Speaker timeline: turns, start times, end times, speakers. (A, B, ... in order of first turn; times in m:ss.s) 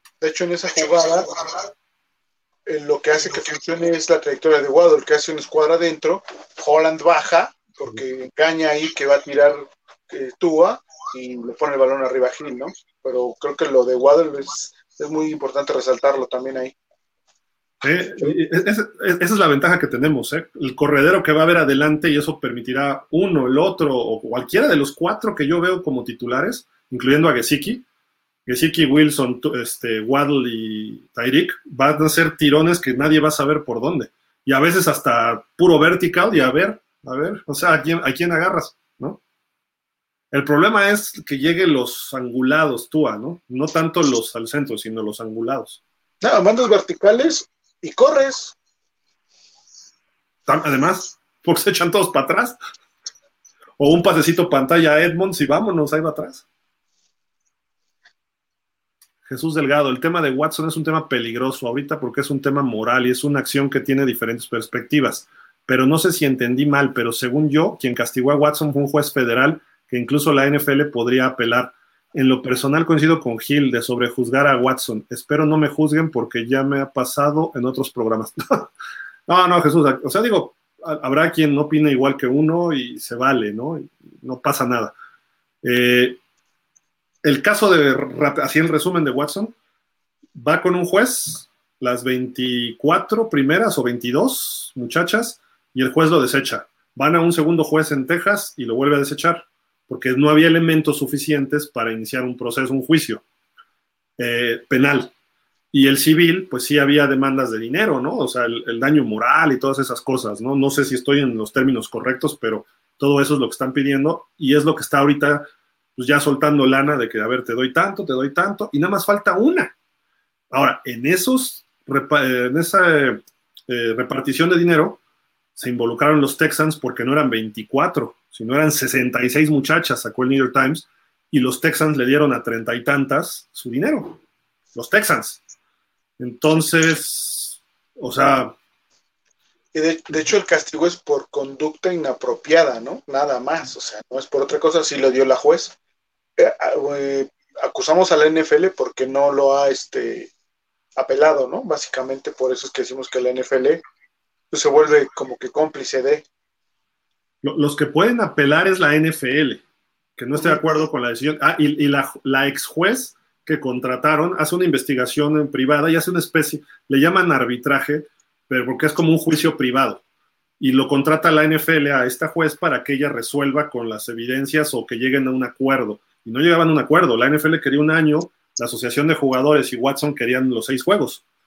0:00.2-0:01.6 A
0:02.7-0:16.8 A
0:17.8-0:27.8 B
0:28.5-0:39.2 B
0:40.3-0:45.8 B
0:46.2-0:48.6 A
0:50.5-0:52.6 B
0:53.8-0:56.4 B
0:59.3-1:18.7 B
1:19.3-1:24.9 B
1:25.6-1:26.2 B
1:27.2-1:29.5 B
1:30.4-1:43.2 B
1:44.2-1:45.1 B
1:45.7-1:55.4 B
1:56.0-1:59.7 B
2:00.5-2:05.0 B
2:05.6-2:14.2 B
2:14.8-2:15.4 B
2:16.2-2:18.6 B
2:19.7-2:25.8 A
2:26.4-2:30.3 A
2:31.0-2:33.8 A
2:34.5-2:36.2 A
2:37.4-2:39.6 B
2:40.2-2:50.0 B
2:40.4-2:40.8 A
2:50.6-3:01.2 B